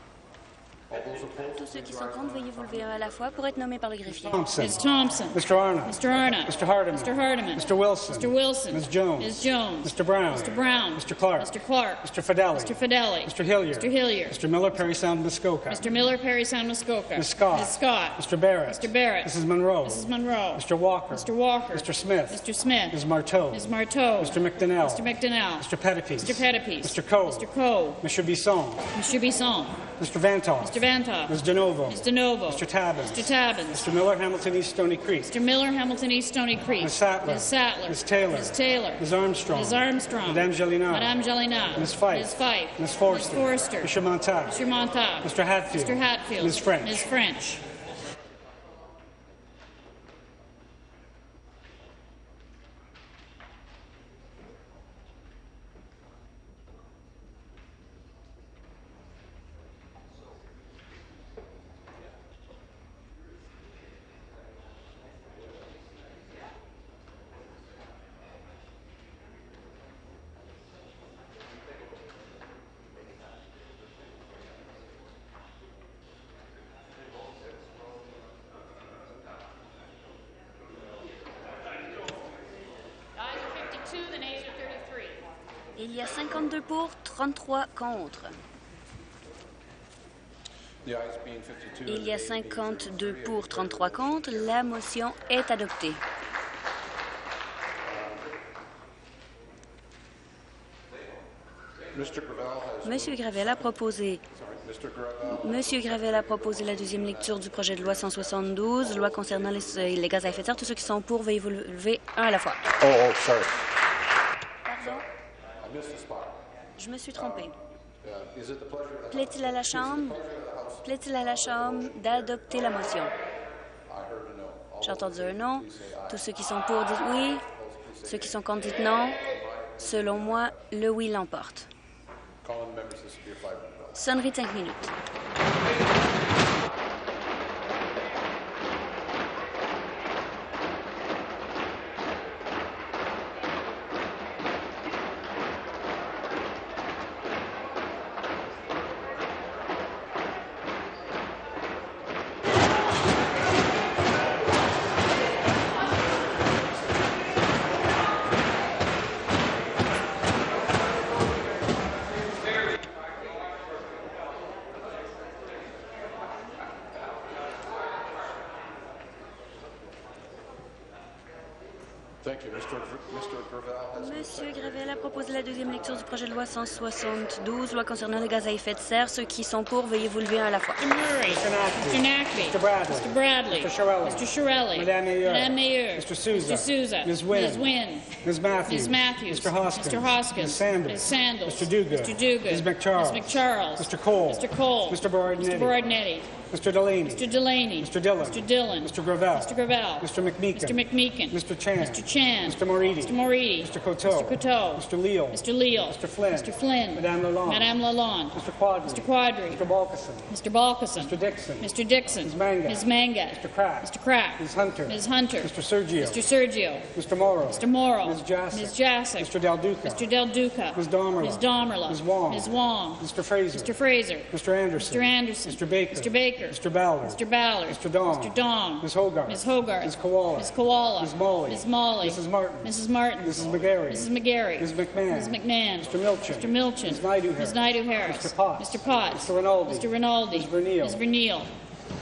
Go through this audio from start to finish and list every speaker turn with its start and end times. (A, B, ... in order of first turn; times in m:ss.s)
0:00.9-0:04.1 A
0:01.5-0:04.6 B
0:04.2-0:11.5 C
0:04.5-0:14.8 D
0:12.0-0:15.9 C
0:15.7-0:25.7 D
0:17.2-0:25.0 C
0:25.6-0:27.5 C
0:26.2-0:28.0 D
0:28.0-0:28.8 C
0:28.9-0:29.9 D
0:29.9-0:35.3 C
0:30.6-0:33.9 D
0:35.3-0:47.6 D
0:36.8-0:41.2 C
0:41.7-0:44.6 C
0:45.2-0:47.0 C
1:23.2-1:25.2 D
1:25.8-1:28.4 B
1:30.8-1:34.4 A
1:31.8-1:36.0 B
1:37.9-1:38.2 A
1:41.9-1:43.7 A
1:42.8-1:44.2 B
1:44.3-1:47.8 A
1:45.3-1:52.6 B
1:52.8-1:53.6 A
1:54.6-1:55.0 B
1:55.6-1:56.4 A
1:56.8-1:57.5 B
1:57.2-1:57.4 A
1:58.0-2:02.0 A
1:59.1-2:00.2 B
2:00.8-2:03.1 B
2:03.9-2:06.4 A
2:04.8-2:07.4 B
2:07.4-2:10.6 A
2:08.0-2:09.2 B
2:09.8-2:11.7 B
2:12.4-2:14.2 A
2:14.0-2:14.9 B
2:52.2-2:54.6 A
2:53.9-3:00.8 B
3:00.8-3:16.4 D
3:01.2-3:07.7 C
3:08.2-3:15.8 C
3:16.3-3:17.3 C
3:17.0-3:29.6 D
3:17.8-3:27.7 C
3:28.3-3:29.0 C
3:29.6-3:30.3 C
3:30.3-3:36.9 D
3:31.0-3:36.2 C
3:36.9-3:40.0 C
3:37.5-3:43.0 D
3:40.7-3:43.7 C
3:43.5-4:01.5 D
3:44.3-4:01.0 C